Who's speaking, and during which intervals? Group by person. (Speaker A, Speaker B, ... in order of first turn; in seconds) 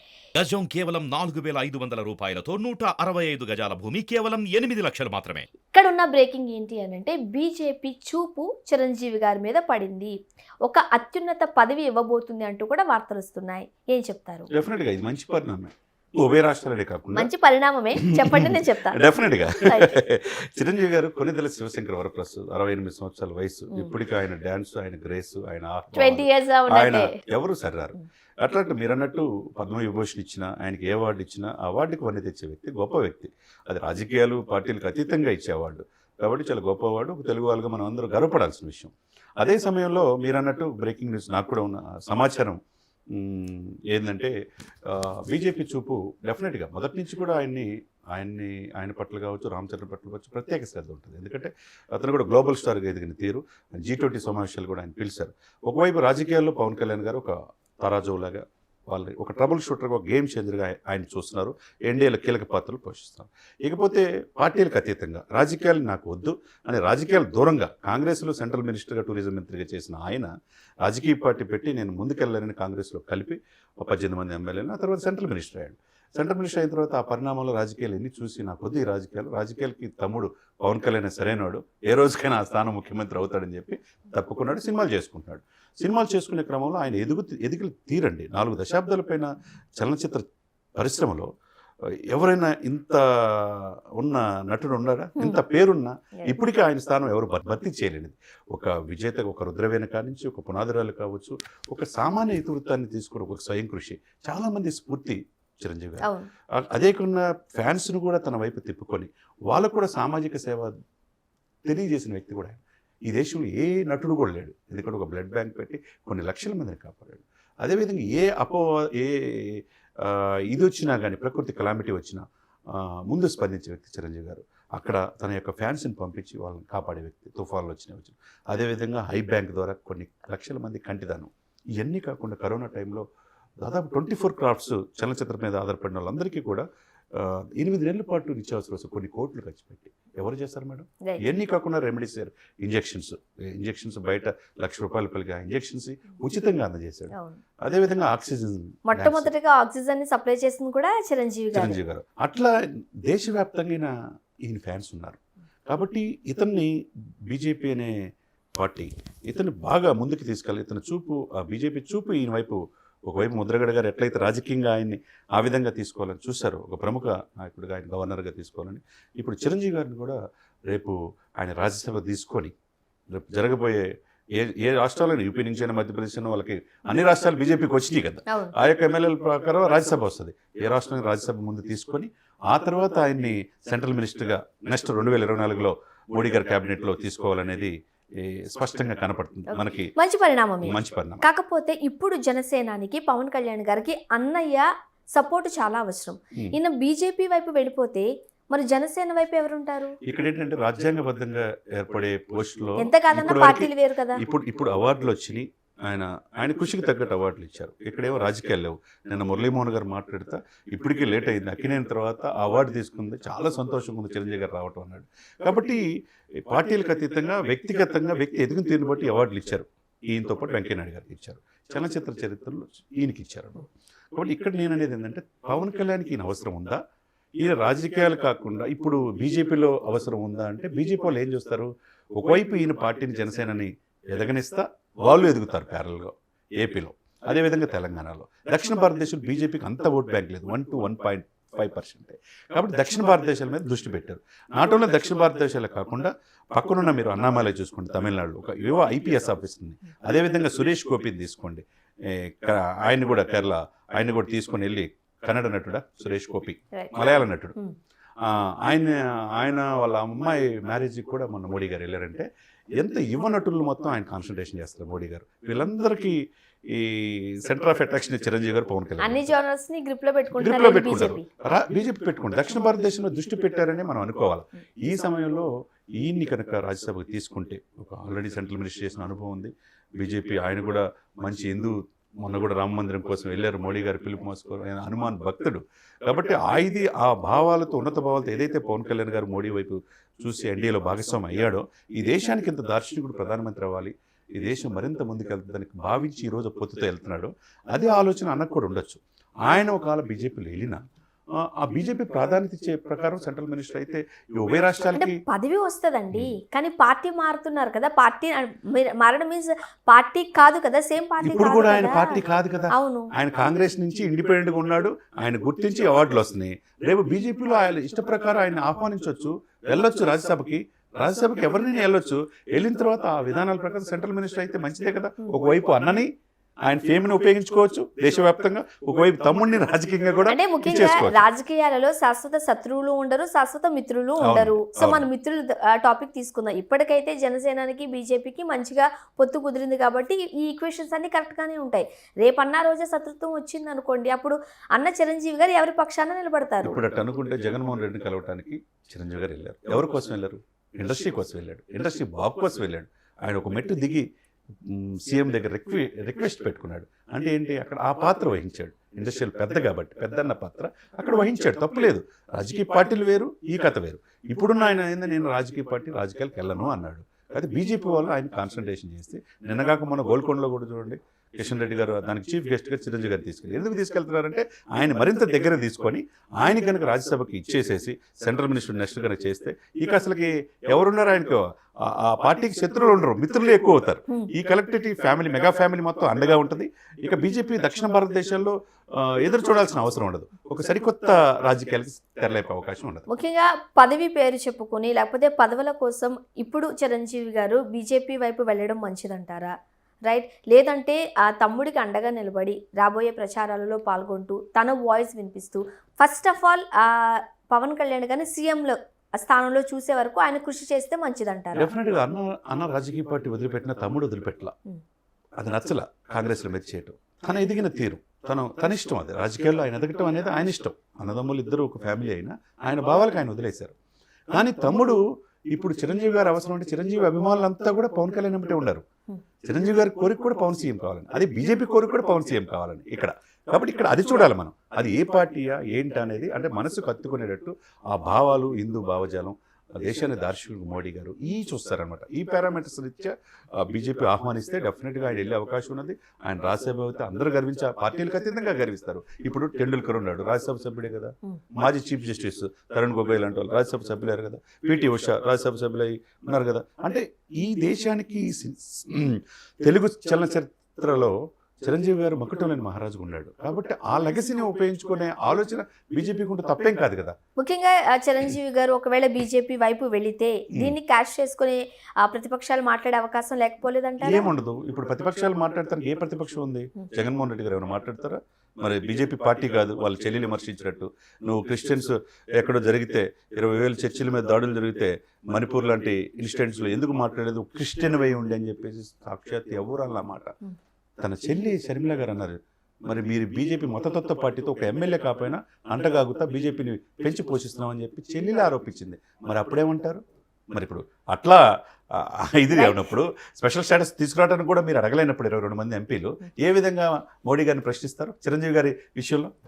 Speaker A: 0.3-5.5
Speaker B: 5.7-14.5, 17.1-19.1, 19.6-20.0, 25.9-27.1, 106.0-106.3, 147.1-147.4, 148.9-151.8, 178.3-178.5, 189.5-199.9, 202.8-204.2, 256.7-257.7, 269.0-271.3, 304.9-313.1, 330.3-346.8, 393.1-399.5, 400.1-411.7, 467.4-474.3, 502.5-502.9
Speaker C: 14.5-17.3, 18.0-42.6, 43.1-44.3, 44.9-70.3, 70.8-90.2, 90.8-91.3, 91.8-110.7, 111.7-133.1, 133.6-149.3, 151.5-156.7, 157.3-158.1, 158.6-172.5, 173.1-189.9, 190.6-191.2, 200.0-226.8, 227.4-257.6, 258.2-269.3, 270.4-300.8, 301.4-305.2, 311.2-326.1, 326.6-331.2, 334.2-335.1, 346.6-354.0, 354.6-393.1, 411.5-414.5, 415.4-423.7, 424.3-428.8, 429.4-467.1, 474.0-490.3, 491.0-509.3